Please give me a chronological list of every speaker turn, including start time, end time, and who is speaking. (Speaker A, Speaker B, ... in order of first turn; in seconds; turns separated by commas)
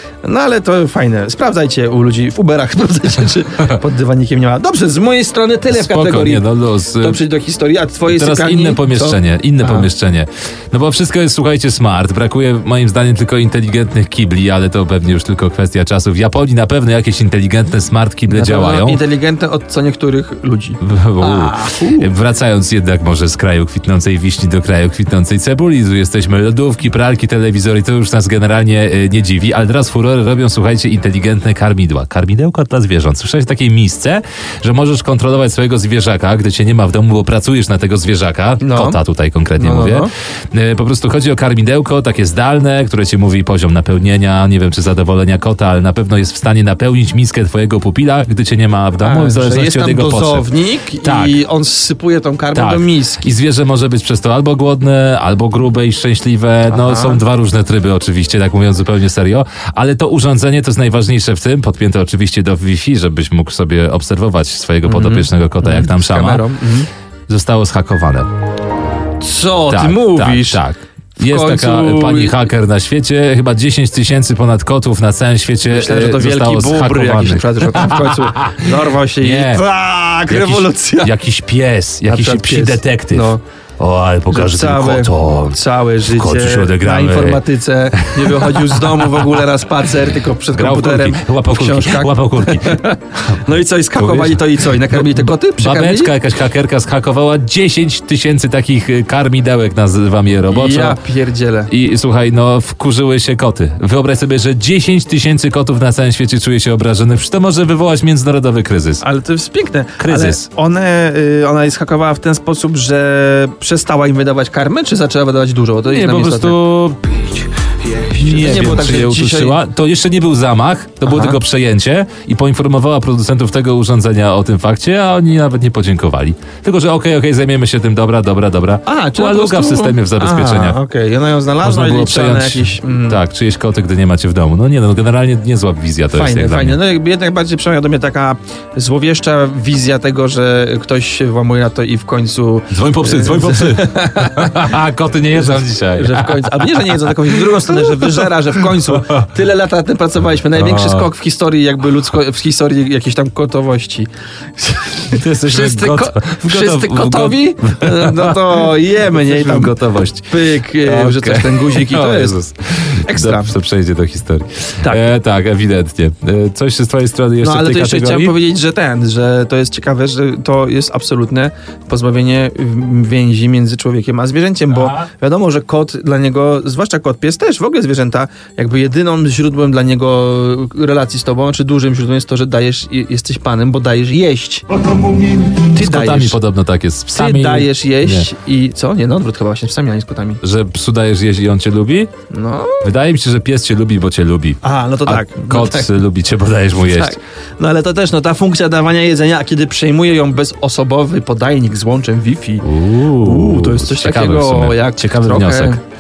Speaker A: 0.2-6.4, Speaker B: 5.7-7.2, Speaker A: 7.0-9.9, Speaker B: 8.1-19.0, Speaker A: 18.3-22.1, Speaker B: 20.8-50.5, Speaker A: 38.6-39.0, Speaker A: 39.6-40.1, Speaker A: 49.0-53.3, Speaker B: 51.0-51.4, Speaker B: 52.5-66.4, Speaker A: 56.7-57.2, Speaker A: 64.8-66.9, Speaker B: 67.3-68.3, Speaker A: 69.2-70.6, Speaker B: 69.7-78.7, Speaker A: 71.2-72.4, Speaker A: 75.7-81.1, Speaker B: 79.2-79.6, Speaker B: 80.3-87.4, Speaker A: 82.1-83.4, Speaker A: 84.3-96.1, Speaker B: 87.9-89.3, Speaker B: 90.5-93.4, Speaker B: 94.0-101.0, Speaker A: 100.5-101.7, Speaker B: 101.7-109.0, Speaker A: 109.0-116.6, Speaker B: 110.0-110.5, Speaker B: 115.9-117.5, Speaker B: 118.0-130.8, Speaker A: 118.1-119.6, Speaker A: 121.0-121.4, Speaker A: 128.8-133.2, Speaker B: 131.6-136.8, Speaker A: 136.1-144.6, Speaker B: 142.7-149.2, Speaker A: 145.4-159.8, Speaker B: 150.5-151.1, Speaker B: 155.1-168.3, Speaker A: 160.3-162.3, Speaker A: 163.0-163.5, Speaker A: 164.8-165.1, Speaker A: 167.4-186.4, Speaker B: 174.7-175.1, Speaker B: 184.8-188.3, Speaker A: 187.1-190.4, Speaker B: 190.4-192.1, Speaker A: 192.3-192.9, Speaker B: 192.8-197.2, Speaker A: 194.6-195.9, Speaker A: 196.8-202.7, Speaker B: 202.6-205.8, Speaker A: 203.2-205.8